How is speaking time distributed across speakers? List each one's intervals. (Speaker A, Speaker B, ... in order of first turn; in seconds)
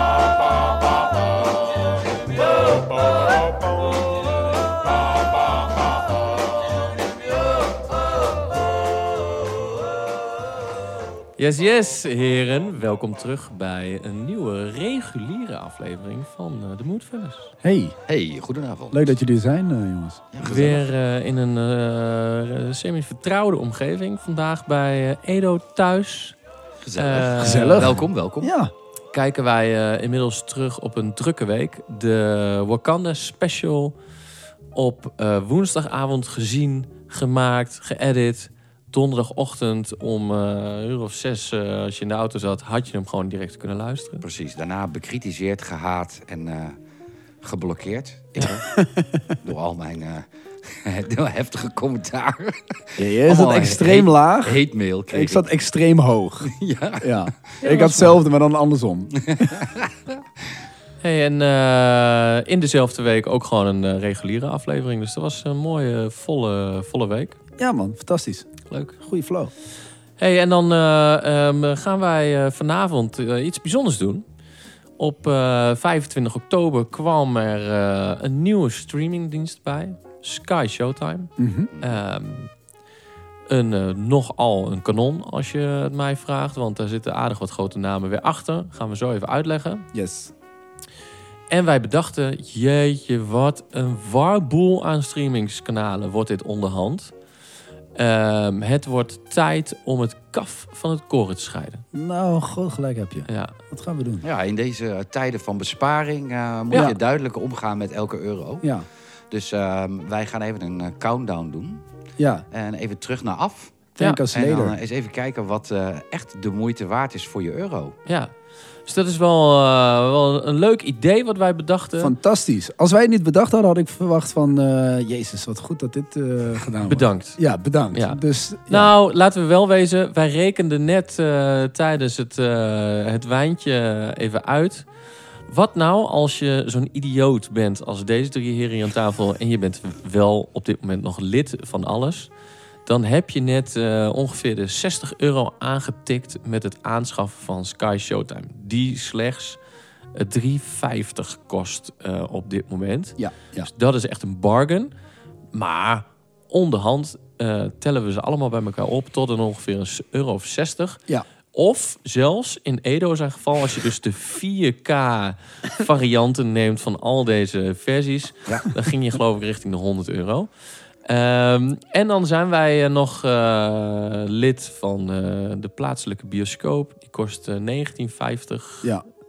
Speaker A: 11.4-17.5, 20.4-26.4, 27.0-28.0, 29.1-34.0, 34.7-44.2, 57.6-58.2, 61.0-67.4, 68.7-69.0, 70.2-74.2, 75.0-82.5, 83.5-89.9, 91.5-97.1, 98.0-101.8, 103.3-103.5, 118.1-118.3, 118.9-122.2, 126.9-127.4, 127.9-134.9, 135.5-142.3, 142.9-149.6, 150.2-154.9, 155.5-161.0, 161.5-170.5, 171.1-178.9
Speaker B: 17.6-18.0, 18.9-20.3, 27.4-28.7, 48.7-49.3, 53.0-59.6, 67.6-68.5, 69.0-69.5, 81.4-81.7, 89.9-90.3, 101.9-104.2, 112.2-112.5, 114.0-114.8, 122.0-128.9, 153.2-153.7
Speaker C: 18.1-19.2, 20.3-20.9, 26.8-28.5, 44.2-46.8, 47.4-48.7, 49.4-55.5, 56.5-57.6, 59.3-60.2, 104.2-108.7, 109.3-111.8, 112.5-118.0